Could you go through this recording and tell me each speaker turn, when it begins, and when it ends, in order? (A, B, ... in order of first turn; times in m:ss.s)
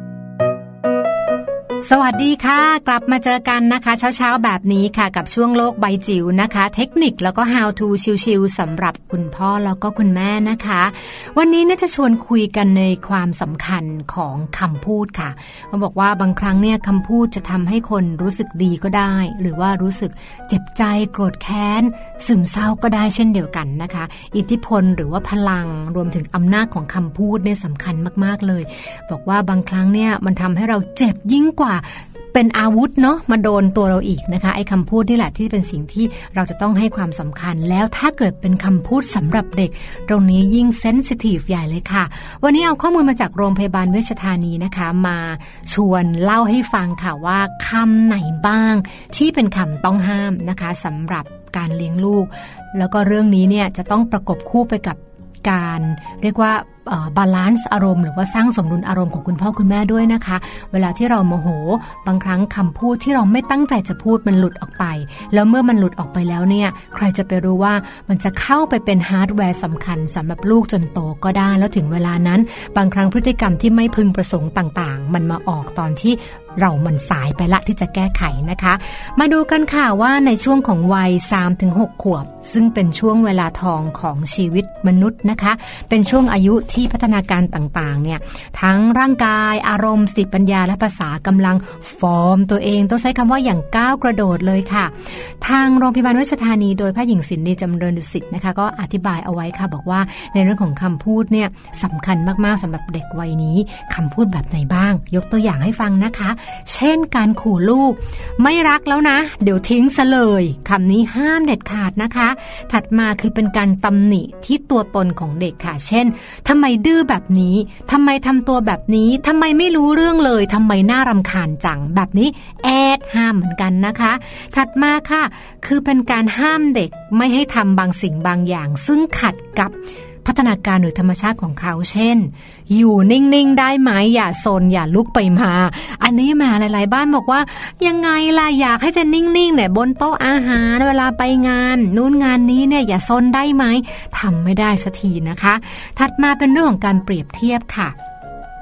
0:01.8-2:28.0 A